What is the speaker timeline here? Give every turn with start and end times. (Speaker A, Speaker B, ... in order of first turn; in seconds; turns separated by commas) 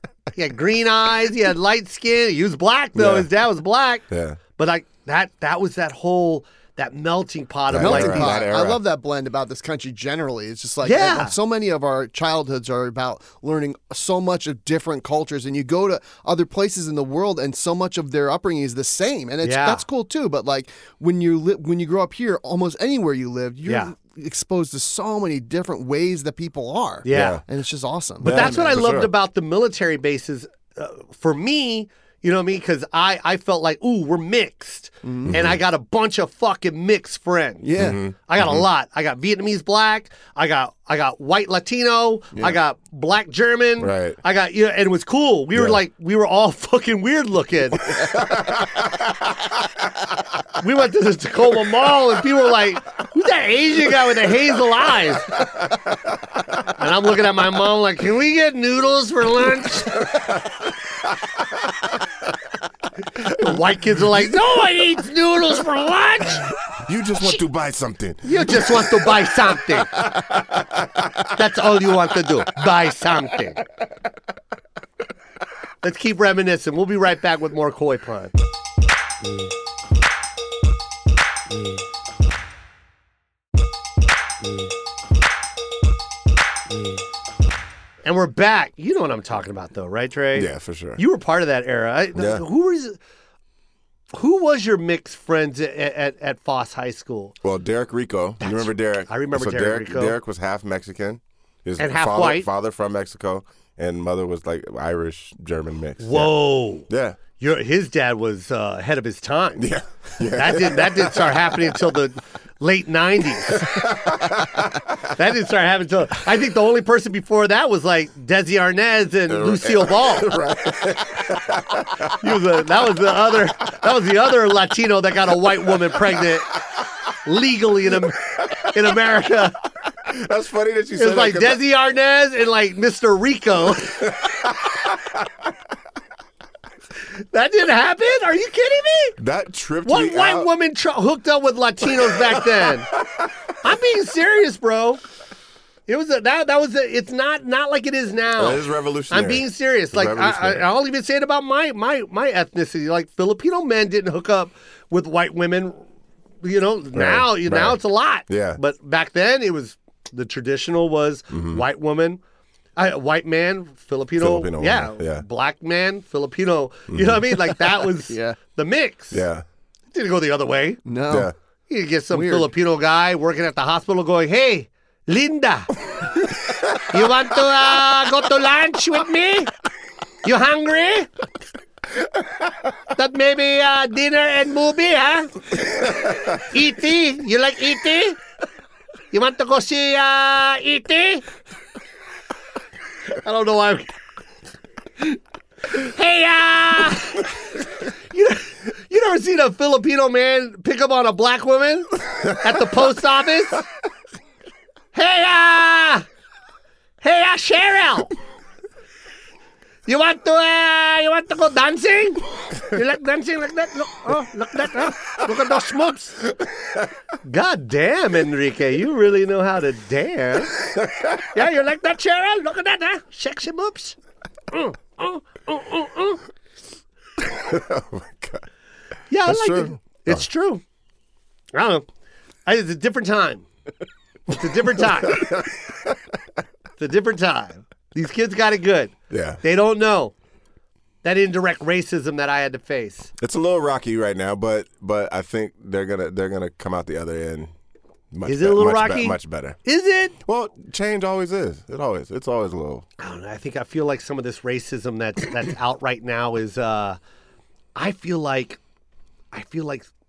Speaker A: 0.3-4.0, Speaker B: 3.0-3.3, Speaker B: 4.1-4.4, Speaker A: 4.5-8.4, Speaker B: 7.7-8.8, Speaker C: 7.7-28.8, Speaker A: 10.8-11.3, Speaker A: 19.4-19.8, Speaker A: 23.7-23.9, Speaker A: 27.1-27.4, Speaker B: 27.1-27.4, Speaker B: 28.2-29.1, Speaker A: 28.2-37.7, Speaker C: 35.0-35.4, Speaker B: 35.2-35.6, Speaker C: 37.6-38.0, Speaker B: 37.8-38.7, Speaker A: 38.3-48.1, Speaker B: 43.8-44.2, Speaker B: 45.5-45.8, Speaker B: 47.9-49.3, Speaker A: 50.6-55.4, Speaker A: 56.7-60.3, Speaker A: 63.2-66.5, Speaker B: 66.8-71.3, Speaker A: 68.2-70.0, Speaker A: 71.3-73.6, Speaker A: 75.8-78.3, Speaker A: 88.0-93.0, Speaker B: 90.3-91.0, Speaker B: 92.2-92.4, Speaker A: 94.1-97.4, Speaker B: 97.4-106.3, Speaker A: 98.4-100.2, Speaker A: 101.8-102.5, Speaker A: 106.0-109.7, Speaker B: 106.9-107.2, Speaker B: 109.6-111.7, Speaker A: 110.3-114.2, Speaker B: 113.5-114.9, Speaker A: 115.1-120.3, Speaker B: 119.3-122.4, Speaker A: 122.1-126.5, Speaker A: 127.2-129.6, Speaker B: 130.0-131.6, Speaker A: 130.9-134.2, Speaker B: 134.1-135.2, Speaker A: 137.3-139.2, Speaker B: 139.2-140.5, Speaker A: 139.9-142.9, Speaker B: 142.4-143.2, Speaker A: 143.6-145.0, Speaker A: 145.9-155.8, Speaker B: 148.4-150.7, Speaker A: 156.4-162.2, Speaker B: 156.9-158.6, Speaker B: 161.3-161.6, Speaker A: 162.8-169.2, Speaker B: 164.2-165.2, Speaker B: 166.9-167.6, Speaker C: 168.1-168.4, Speaker B: 169.1-169.4, Speaker A: 169.9-170.8, Speaker C: 170.8-171.3, Speaker B: 171.1-171.3, Speaker A: 171.7-175.8, Speaker C: 172.1-172.5, Speaker A: 176.8-179.5, Speaker A: 180.2-181.1, Speaker A: 182.9-188.2, Speaker A: 189.1-191.2, Speaker A: 193.2-194.0, Speaker A: 195.7-203.6, Speaker A: 204.9-206.1, Speaker A: 207.0-208.1, Speaker A: 209.9-216.2, Speaker A: 217.2-220.6, Speaker B: 220.6-221.2, Speaker A: 221.3-224.0, Speaker A: 224.5-226.2, Speaker B: 227.2-228.4, Speaker A: 229.1-230.6, Speaker B: 229.2-230.2, Speaker A: 231.5-231.9, Speaker A: 232.4-233.4, Speaker A: 234.3-235.3, Speaker B: 235.0-236.0, Speaker A: 236.8-240.1, Speaker B: 239.1-239.4, Speaker A: 241.0-243.1, Speaker B: 243.2-247.5, Speaker B: 248.1-249.6, Speaker A: 248.3-250.2, Speaker B: 250.2-252.9, Speaker A: 253.0-257.0, Speaker A: 257.7-258.6, Speaker A: 259.3-259.9